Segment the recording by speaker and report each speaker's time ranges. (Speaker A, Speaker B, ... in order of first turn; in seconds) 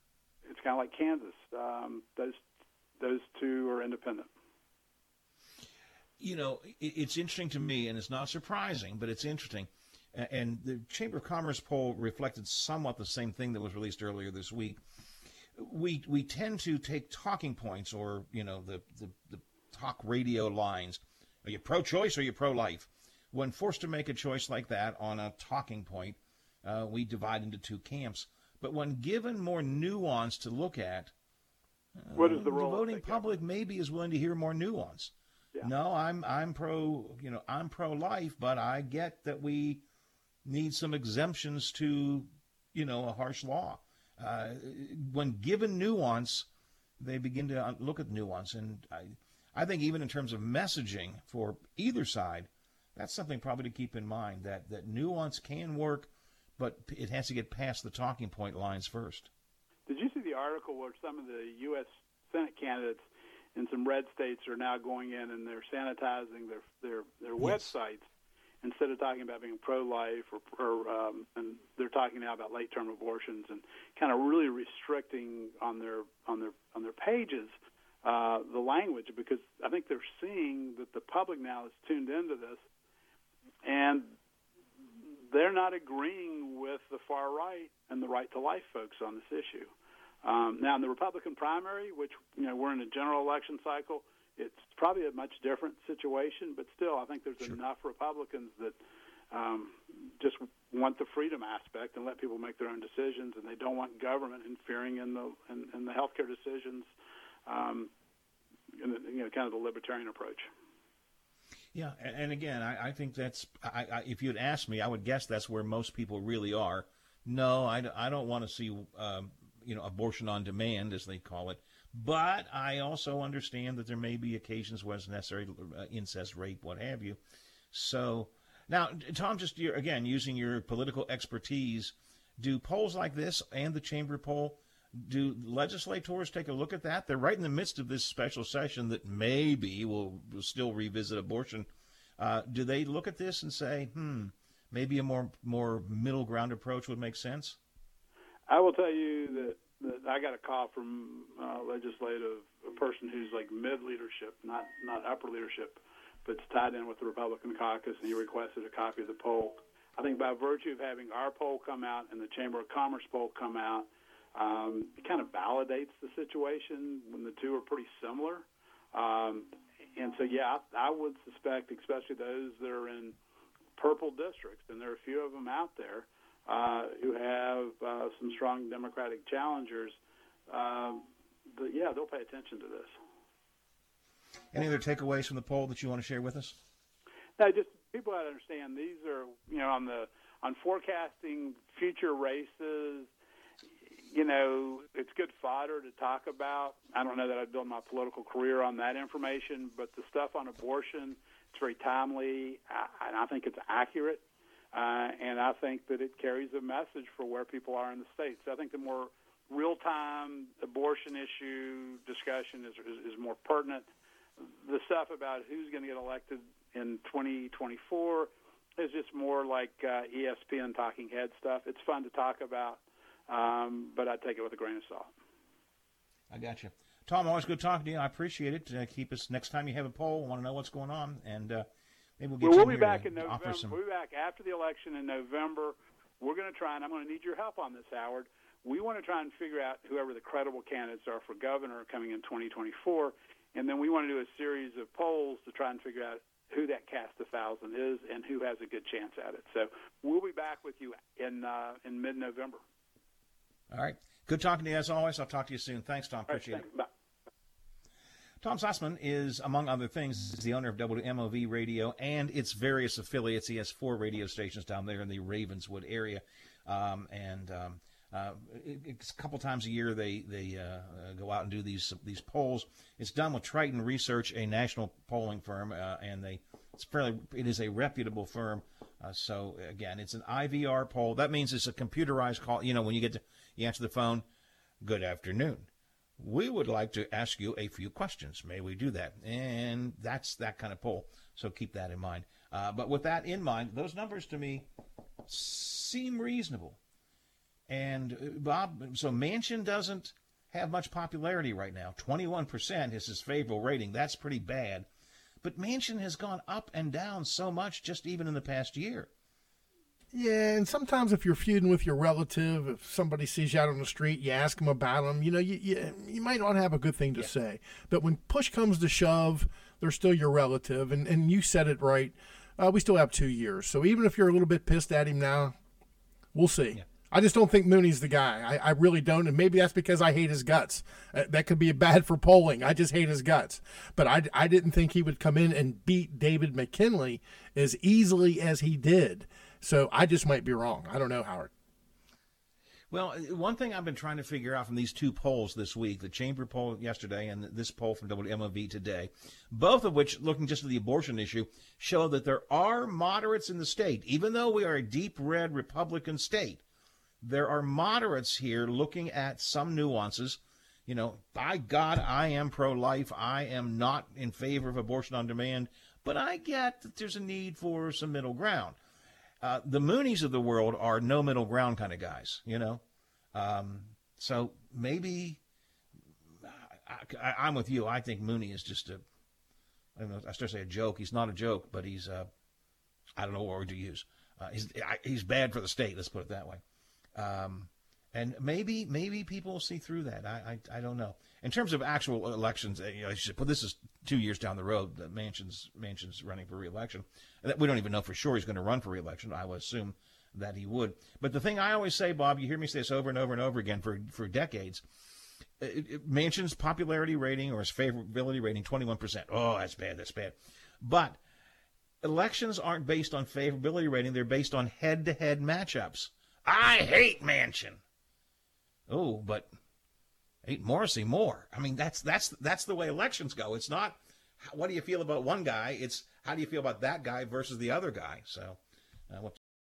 Speaker A: 0.5-2.4, 3.0-4.3, 32.1-33.2, 59.9-68.1, 68.6-82.6, 83.7-84.1, 85.3-89.7, 90.2-98.8, 99.3-106.9, 107.5-107.9, 108.8-110.5, 148.5-173.2, 173.8-180.0, 180.5-182.9, 187.4-193.1, 194.1-213.9, 214.6-225.1, 232.4-252.6, 256.3-256.9
Speaker B: 6.2-14.8, 15.6-31.1, 32.0-39.8, 40.5-46.5, 47.0-59.3, 67.4-67.7, 111.7-127.2, 127.7-141.7, 142.2-147.6, 184.5-186.6, 226.3-231.7, 232.2-233.8, 253.7-256.6, 258.4-284.2, 284.8-294.7, 295.3-296.8, 297.7-304.9, 305.4-309.1, 342.9-356.6, 357.2-368.8, 369.4-372.8, 373.3-375.4, 376.4-379.0, 380.0-382.3, 383.2-386.6, 387.2-404.8, 405.6-411.2, 412.0-417.8, 418.9-419.5, 420.4-428.6, 429.1-429.4
Speaker C: 310.1-325.5, 326.3-341.5